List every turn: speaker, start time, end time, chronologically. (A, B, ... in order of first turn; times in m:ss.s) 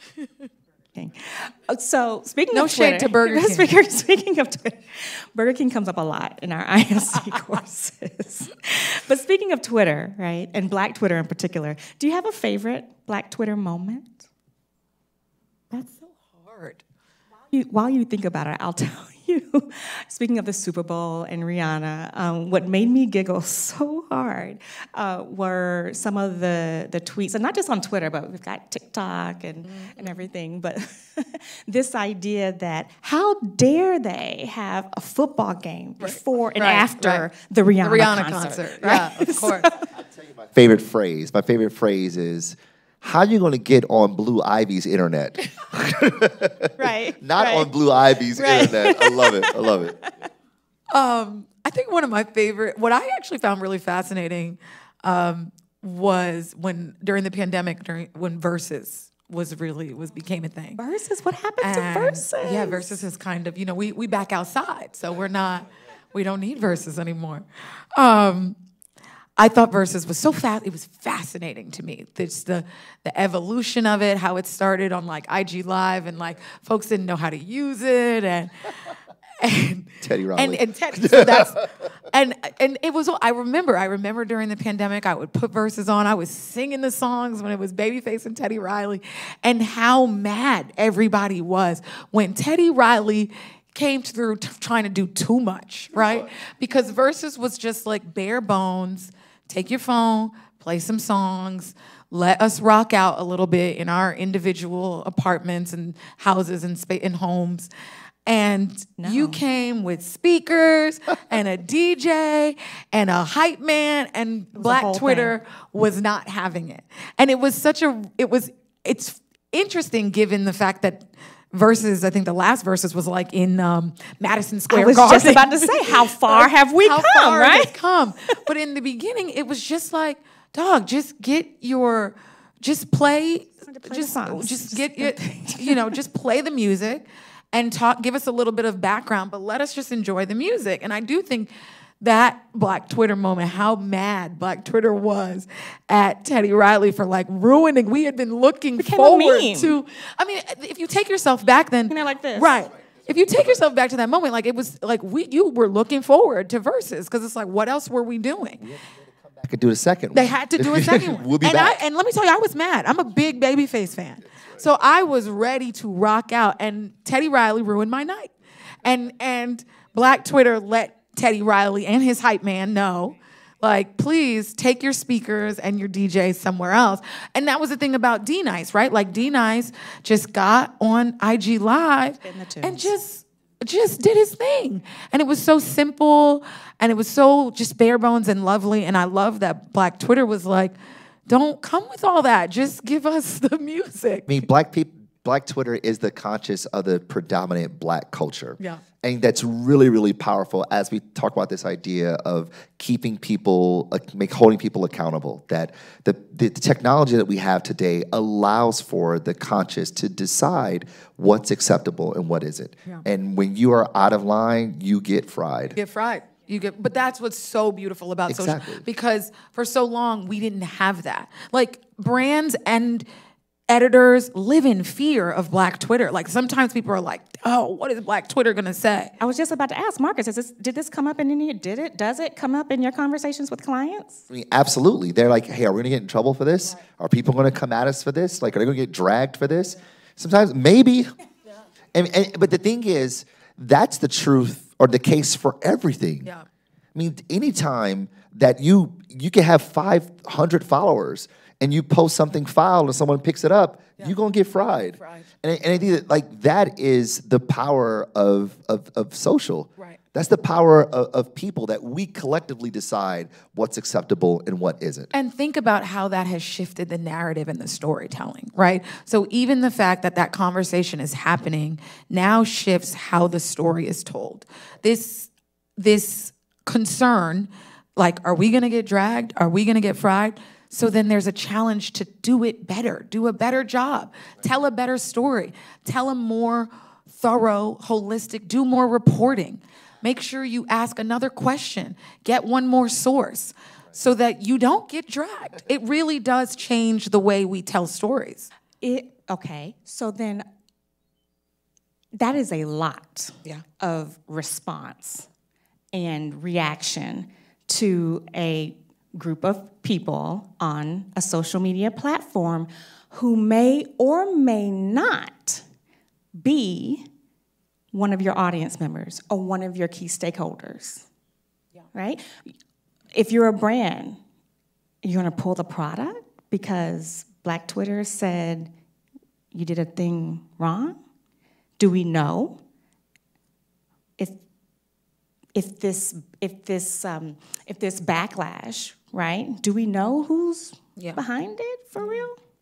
0:00.9-0:14.3 A
0:02.5-0:03.7 B
0:15.7-0:16.8 B
0:17.5-0:39.9 A
0:29.6-0:30.0 B
0:36.0-0:37.3 B
0:37.8-0:39.7 B
0:40.2-0:50.0 C
0:46.8-0:47.7 A
0:48.3-0:50.2 A
0:50.9-1:00.8 B
1:00.8-1:03.0 A
1:01.6-1:08.6 B
1:09.4-1:18.8 B
1:19.4-1:47.7 B
1:20.0-1:21.4 C
1:48.2-2:21.5 B
1:49.0-1:49.4 A
1:54.6-1:55.4 A
2:04.7-2:07.8 A
2:13.6-2:15.8 A
2:22.0-2:38.7 B
2:28.8-2:29.8 A
2:31.9-2:32.7 A
2:38.6-2:41.8 C
2:40.1-3:10.8 B
3:02.2-3:02.9 A
3:11.3-3:14.4 B
3:14.3-3:35.8 C
3:35.7-3:43.0 B
3:38.3-3:38.8 C
3:43.7-3:49.1 B
3:49.2-3:54.2 A
3:54.3-4:01.1 C
4:01.9-4:06.3 C
4:06.9-4:25.1 C
4:15.0-4:15.3 B
4:25.1-4:58.5 B
4:58.8-5:00.4 A
5:02.1-5:05.3 A
5:05.9-5:15.6 A
5:16.4-5:17.1 A
5:17.9-5:21.0 A
5:21.9-5:22.5 A
5:23.1-5:24.2 A
5:25.0-5:28.7 A
5:29.5-5:31.0 A
5:31.8-5:32.6 A
5:35.5-5:42.4 A